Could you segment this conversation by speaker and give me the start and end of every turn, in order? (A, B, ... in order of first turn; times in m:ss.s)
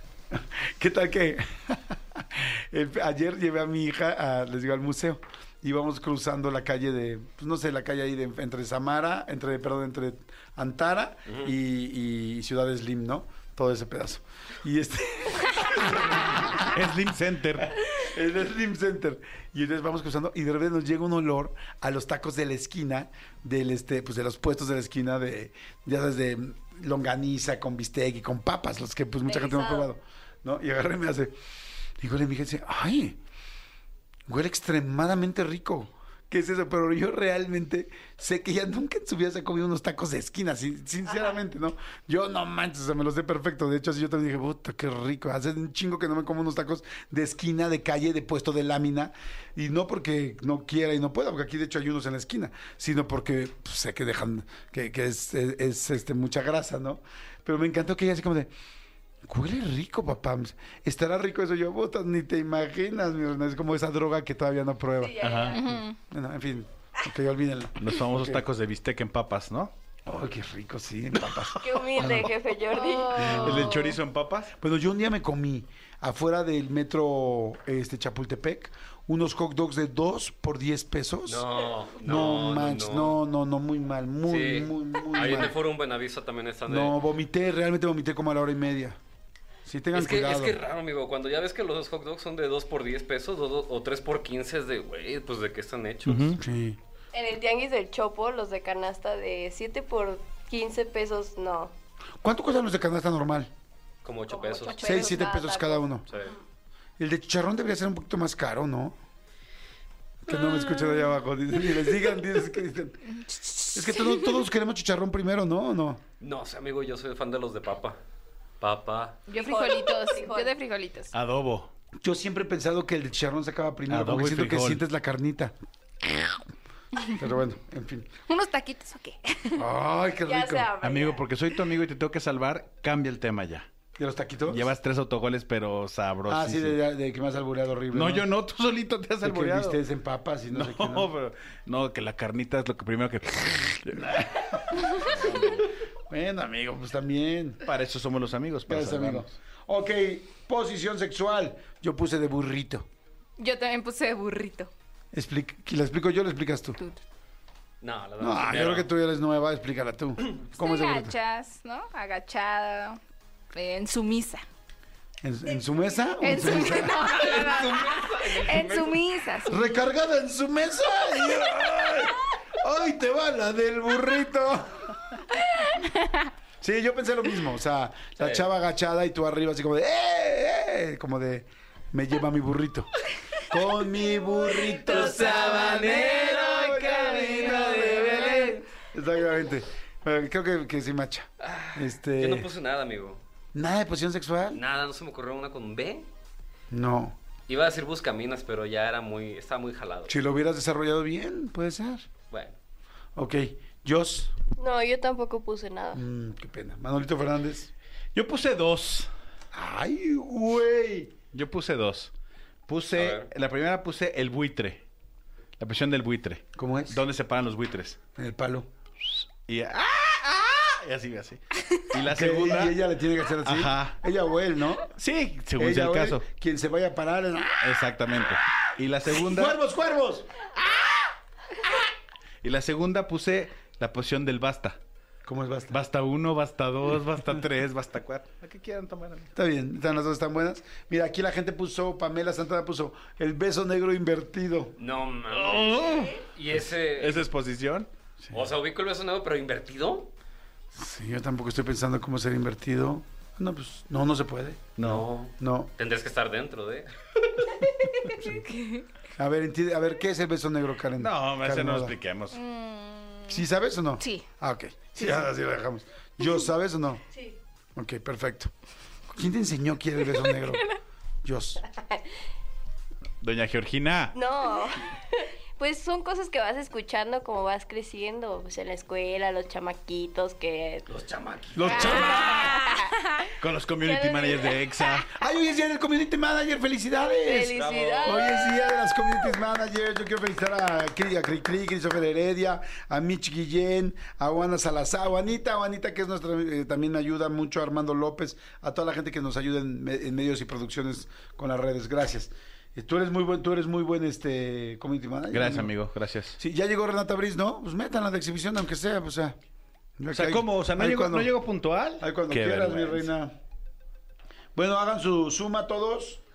0:00.3-0:16.7 A
0:11.3-0:11.5 B
0:16.6-0:17.7 C
0:18.0-0:31.4 A
0:29.2-0:29.9 D
0:32.0-0:33.2 A
0:34.3-0:58.5 A
0:59.2-1:08.4 A
1:05.0-1:05.6 D
1:05.2-1:05.6 C
1:05.4-1:06.0 E
1:07.8-1:09.7 C
1:10.1-1:12.3 A
1:11.2-1:12.3 C
1:11.6-1:13.8 D
1:12.8-1:14.0 E
1:13.2-1:13.8 A
1:13.3-1:14.5 C
1:14.6-1:25.6 A
1:21.3-1:23.2 B
1:24.3-1:27.0 B
1:26.7-1:29.0 A
1:29.6-1:30.6 A
1:29.9-1:36.3 B
1:36.1-1:36.4 C
1:36.4-1:36.8 A
1:37.1-1:41.7 D
1:42.2-1:43.5 A
1:44.0-1:45.0 B
1:44.3-1:46.4 D
1:44.8-1:46.0 A
1:46.1-1:46.4 B
1:47.0-1:49.0 A
1:50.3-1:53.1 A
1:50.6-1:50.9 E
1:53.2-1:54.4 E
1:53.7-1:56.0 A
1:56.2-1:58.0 B
1:58.6-1:59.2 B
1:59.3-2:01.1 E
1:59.3-2:00.6 D
2:01.1-2:01.7 C
2:02.0-2:05.6 A
2:03.9-2:04.8 C
2:07.1-2:08.1 A
2:08.3-2:09.6 E
2:09.6-2:10.7 A
2:10.2-2:11.3 D
2:10.8-2:13.7 C
2:14.0-2:14.7 A
2:14.5-2:16.8 C
2:16.3-2:18.3 A
2:17.9-2:19.8 C
2:19.2-2:21.1 A
2:20.5-2:25.6 C
2:24.0-2:25.5 A
2:26.1-2:27.6 A
2:27.6-2:29.3 C
2:28.7-2:32.9 A
2:33.4-2:34.7 E
2:35.1-2:36.8 A
2:37.8-2:38.9 B
2:38.2-2:41.2 A
2:40.6-2:43.0 E
2:43.5-2:44.4 E
2:45.2-2:47.4 A
2:46.2-2:49.8 E
2:47.1-2:48.9 B
2:49.5-2:55.0 A
2:55.7-2:56.3 E
2:56.6-3:02.9 A
2:58.2-2:58.5 B
3:03.4-3:12.5 A
3:04.2-3:08.5 D
3:05.2-3:06.2 E
3:05.6-3:06.0 B
3:06.3-3:07.2 C
3:06.8-3:08.6 E
3:11.4-3:13.2 B
3:13.5-3:14.6 A
3:14.5-3:16.1 B
3:16.7-3:17.2 A
3:17.5-3:20.2 B
3:20.1-3:22.1 A
3:22.3-3:22.6 B
3:23.2-3:24.3 A
3:24.6-3:26.0 D
3:25.9-3:27.7 A
3:28.2-3:29.1 C
3:29.5-3:31.1 A
3:31.3-3:32.1 C
3:32.7-3:34.8 C
3:32.9-3:33.3 B
3:35.6-3:38.0 C
3:36.6-3:37.0 A
3:38.2-3:38.7 A
3:39.5-3:42.8 C
3:42.0-3:44.9 A
3:43.4-3:44.0 C
3:45.0-3:46.2 C
3:45.6-3:47.9 A
3:47.6-3:49.6 C
3:49.1-3:50.3 A
3:52.4-3:54.8 C
3:55.2-3:55.8 A
3:55.7-3:59.3 C
3:59.4-4:04.8 A
4:04.8-4:07.3 B
4:05.3-4:06.3 C
4:06.9-4:07.9 C
4:08.3-4:10.1 B
4:10.7-4:15.7 A
4:14.8-4:15.0 C
4:14.8-4:16.9 B
4:18.2-4:18.9 E
4:19.2-4:22.0 A
4:21.0-4:22.4 C
4:22.3-4:23.5 E
4:23.3-4:27.0 A
4:24.0-4:24.3 E
4:25.0-4:25.3 E
4:27.8-4:28.5 A
4:29.1-4:30.6 A
4:31.2-4:31.6 A
4:31.7-4:32.0 D
4:33.2-4:34.2 C
4:34.1-4:40.9 D
4:40.9-4:41.9 B
4:41.5-4:42.5 A
4:41.7-4:43.3 E
4:41.8-4:42.9 D
4:43.4-4:45.1 C
4:43.8-4:44.6 D
4:45.1-5:05.7 A
4:47.2-4:49.0 D
4:47.5-4:48.2 B
5:05.3-5:06.4 C
5:06.4-5:09.4 A
5:10.0-5:11.3 A
5:10.1-5:13.1 C
5:12.0-5:13.4 A
5:14.6-5:16.2 A